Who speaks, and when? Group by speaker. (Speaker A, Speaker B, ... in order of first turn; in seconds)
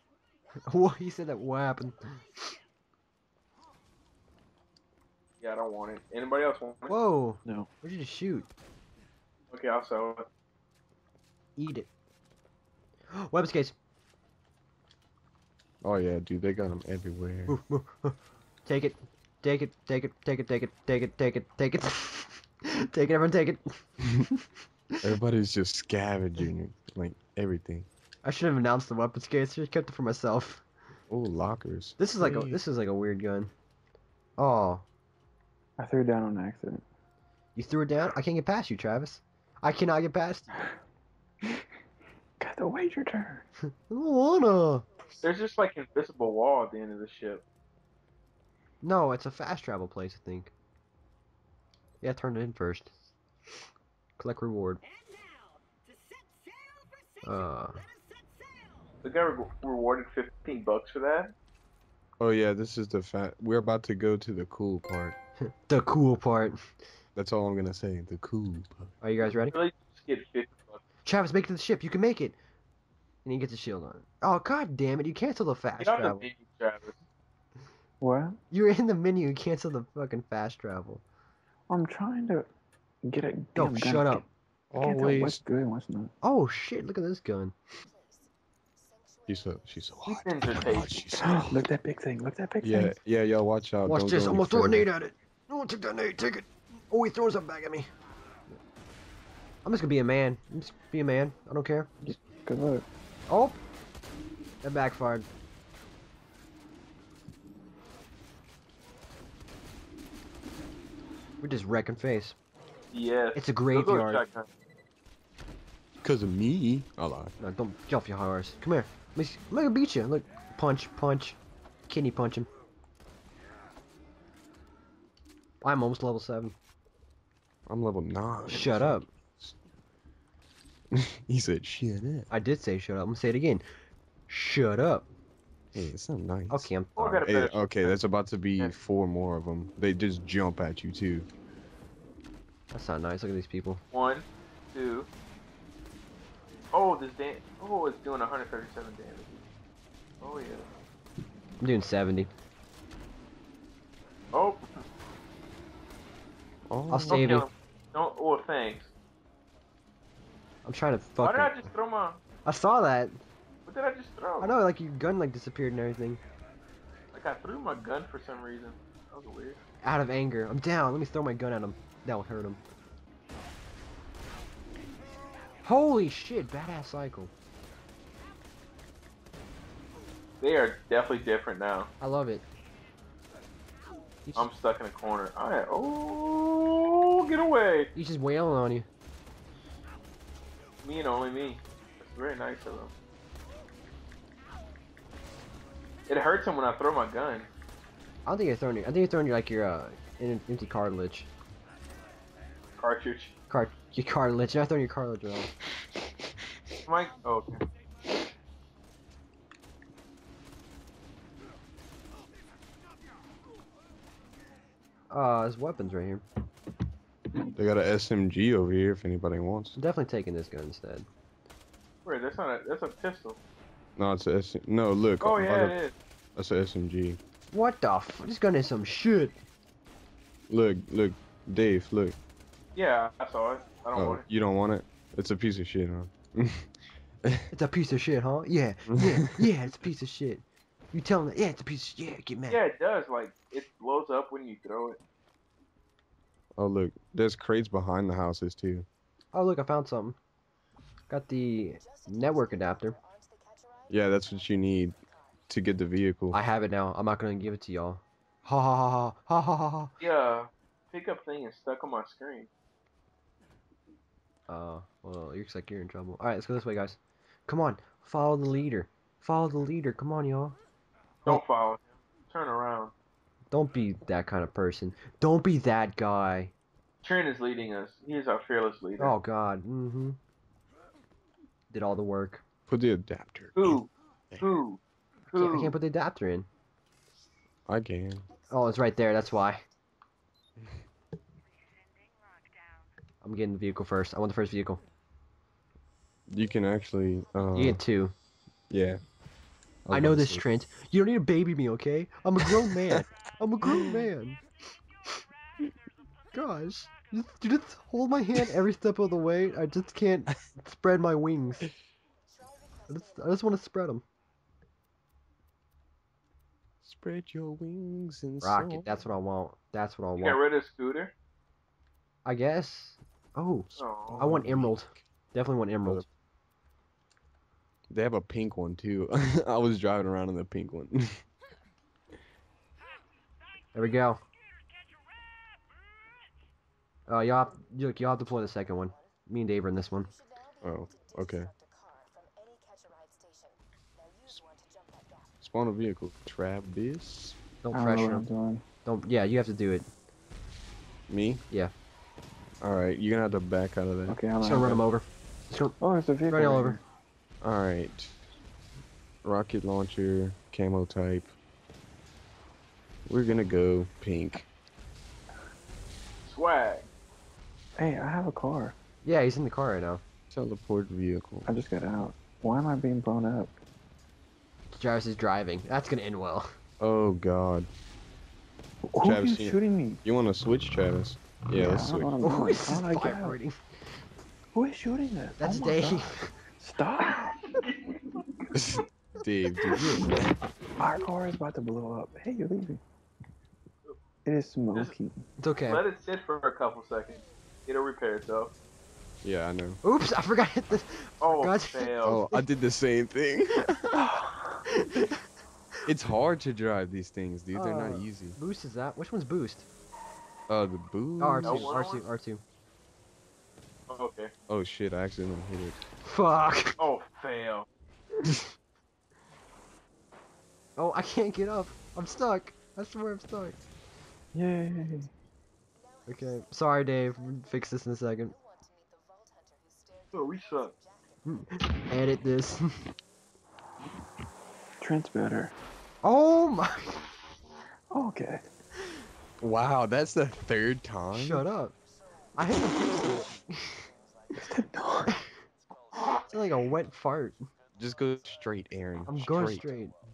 Speaker A: 0.6-2.5, 6.9-8.5, 11.6-11.9, 13.1-13.7, 17.5-24.4, 28.2-30.6, 32.0-33.5, 34.4-34.8, 37.5-40.7, 43.8-44.9, 48.8-50.5, 52.0-52.9, 54.2-54.8, 57.2-57.8, 65.5-66.6, 69.0-69.6, 71.0-72.4, 73.2-76.2, 78.5-81.0, 83.5-84.2, 86.2-87.5, 93.8-97.9, 99.6-101.9, 103.3-103.6, 104.6-105.3, 111.4-112.4, 113.3-114.2, 117.4-122.5, 125.6-126.5, 128.5-129.1, 132.3-133.6, 134.3-135.1, 136.5-137.0, 142.7-143.8, 151.6-152.3, 156.9-157.5, 160.6-161.7, 162.4-163.2, 164.4-166.2, 169.8-172.6, 175.6-177.3, 182.0-182.4, 187.9-188.9, 198.2-201.3, 203.5-205.5, 215.1-216.2, 219.7-221.1, 227.5-229.4, 237.5-242.6, 249.3-250.2, 251.1-253.0, 256.3-259.9, 264.5-270.6, 273.5-276.5, 279.0-280.2, 281.7-282.4, 285.3-286.5, 288.5-289.6, 293.2-294.8, 297.5-298.1, 299.9-304.4, 306.3-311.7, 312.9-314.0, 318.4-320.4, 322.2-326.1, 333.7-334.2, 337.1-340.1, 347.6-348.2, 348.8-349.9, 354.4-355.8, 356.3-356.8, 369.0-370.0, 374.7-376.5, 382.2-383.6, 385.4-386.3, 389.7-390.1, 395.4-395.8, 399.8-402.4, 404.7-405.2, 407.5-409.6, 411.2-412.4, 416.0-416.8, 420.8-423.6, 426.1-428.4, 431.2-432.7, 436.0-437.0, 441.1-441.8, 442.4-443.8, 446.3-447.4, 449.1-449.9
Speaker B: 5.4-7.0, 9.5-10.3, 45.2-47.4, 59.0-61.3, 69.5-70.8, 75.8-77.0, 90.0-91.0, 112.9-114.5, 136.9-138.0, 143.9-145.1, 146.7-149.4, 150.2-150.7, 154.3-154.6, 157.1-158.9, 161.2-162.2, 163.7-164.6, 167.1-169.6, 180.4-181.9, 184.3-187.9, 190.8-192.9, 196.1-197.5, 202.8-203.3, 206.8-207.6, 222.0-223.4, 225.2-225.9, 232.7-234.2, 242.5-245.0, 260.0-262.5, 271.2-272.9, 277.0-279.2, 283.6-284.8, 285.3-285.7, 320.2-321.1, 323.8-324.3, 366.2-366.9, 387.2-387.7, 395.6-398.5, 401.2-402.2, 411.4-412.0, 413.9-414.3, 416.8-417.7, 430.1-430.7
Speaker C: 15.8-17.6, 25.0-27.9, 31.1-32.6, 62.2-65.2, 67.1-68.9, 84.7-85.4, 89.3-91.6, 92.6-94.9, 116.0-117.3, 127.7-129.6, 130.9-132.3, 135.7-141.3, 156.7-157.4, 217.5-219.8, 224.0-225.7, 226.3-227.2, 230.5-232.2, 233.9-236.7, 239.1-239.5, 246.6-248.9, 253.9-255.0, 255.5-256.4, 282.7-283.8, 287.7-288.3, 296.3-297.8, 298.7-299.0, 299.9-300.4, 316.8-318.9, 324.1-324.8, 327.9-331.2, 340.6-341.5, 345.4-347.4, 351.1-351.4, 352.6-354.2, 357.4-358.1, 359.2-361.3, 363.1-364.5, 370.3-371.5, 376.8-377.7, 379.0-382.1, 388.6-390.3, 399.2-399.8, 402.0-404.0, 405.9-408.4, 410.5-411.8, 414.5-415.8, 439.4-441.5, 447.8-449.7
Speaker D: 35.8-36.8, 42.4-43.4, 78.0-78.4, 81.7-82.5, 83.0-84.2, 84.8-86.1, 91.2-92.9, 102.0-102.8, 347.7-348.6, 354.1-354.8, 355.8-356.8, 367.8-368.8, 371.4-373.5, 378.9-380.0, 381.5-383.4, 384.5-387.6, 390.8-392.8, 394.2-395.2, 404.1-404.5, 424.3-425.1, 434.8-435.5, 437.9-438.4, 444.3-445.2